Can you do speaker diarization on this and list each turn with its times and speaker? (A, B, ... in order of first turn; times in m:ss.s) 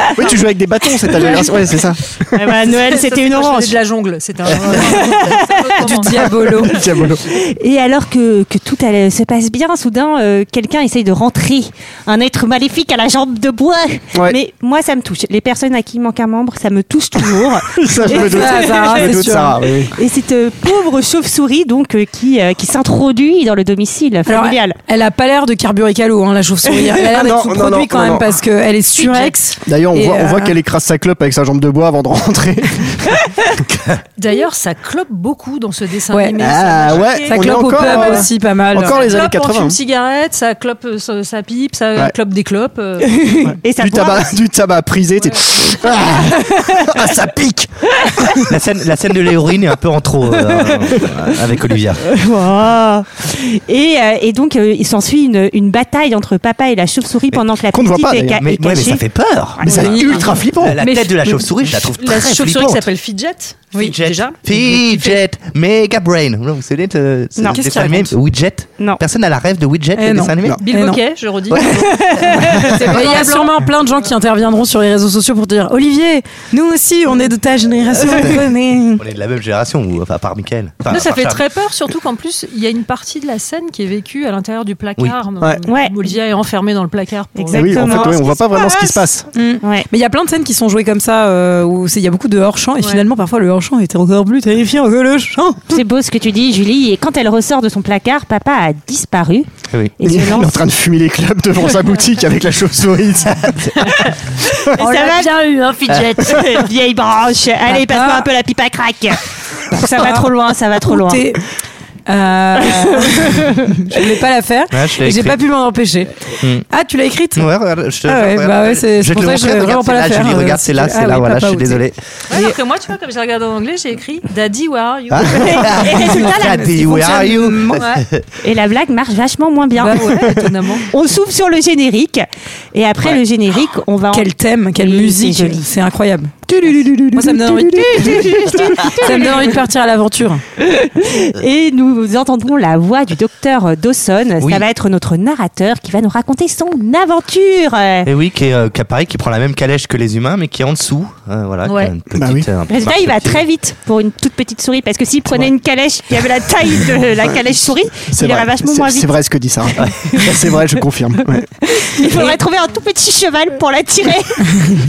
0:00.2-0:02.2 A
0:02.3-0:03.8 B
0:02.6-0:06.7 C
0:04.8-0:05.5 B
0:05.8-0:06.8 D
0:06.6-0:07.2 A
0:07.3-0:19.2 B
0:17.8-0:19.9 A
0:18.1-0:19.6 D
0:20.0-0:24.8 B
0:24.2-0:30.5 D
0:27.0-0:28.3 A
0:29.0-0:29.3 C
0:29.7-0:33.2 A
0:33.7-0:34.0 E
0:34.2-0:43.2 C
0:36.1-0:36.5 D
0:36.4-0:39.8 A
0:37.2-0:39.1 D
0:43.2-0:44.3 B
0:43.4-0:48.5 A
0:48.5-0:52.0 E
0:52.0-0:59.0 B
0:57.7-0:58.6 A
0:58.4-1:02.9 E
0:59.6-0:59.9 B
0:59.6-1:00.8 A
1:00.0-1:00.2 C
1:00.8-1:05.2 C
1:03.8-1:10.6 E
1:07.4-1:08.2 B
1:10.0-1:11.0 D
1:10.6-1:13.6 C
1:11.5-1:11.9 E
1:11.6-1:19.0 D
1:18.0-1:21.4 E
1:20.9-1:28.3 C
1:25.7-1:25.9 B
1:27.4-1:28.9 B
1:27.5-1:29.2 A
1:29.3-1:35.7 D
1:29.6-1:29.9 B
1:35.7-1:40.6 B
1:40.0-1:43.6 A
1:44.8-1:46.6 C
1:44.8-1:45.3 B
1:46.2-1:51.2 B
1:47.7-1:48.3 D
1:49.8-1:51.4 D
1:52.1-1:56.1 D
1:52.6-1:53.6 B
1:54.7-1:55.4 E
1:56.7-1:57.5 D
1:57.3-2:02.0 E
1:58.0-2:01.8 D
2:02.3-2:06.0 C
2:05.1-2:08.2 E
2:05.3-2:07.3 B
2:06.1-2:07.8 D
2:07.8-2:08.0 C
2:08.4-2:10.2 B
2:09.8-2:10.2 D
2:09.8-2:10.9 C
2:10.9-2:15.7 B
2:14.1-2:16.3 D
2:16.5-2:18.6 E
2:17.1-2:20.4 D
2:17.7-2:19.6 B
2:20.6-2:28.1 B
2:28.0-2:33.4 E
2:31.6-2:31.9 C
2:32.1-2:32.5 A
2:32.7-2:39.1 B
2:38.1-2:41.5 A
2:39.8-2:40.1 E
2:41.6-2:44.5 B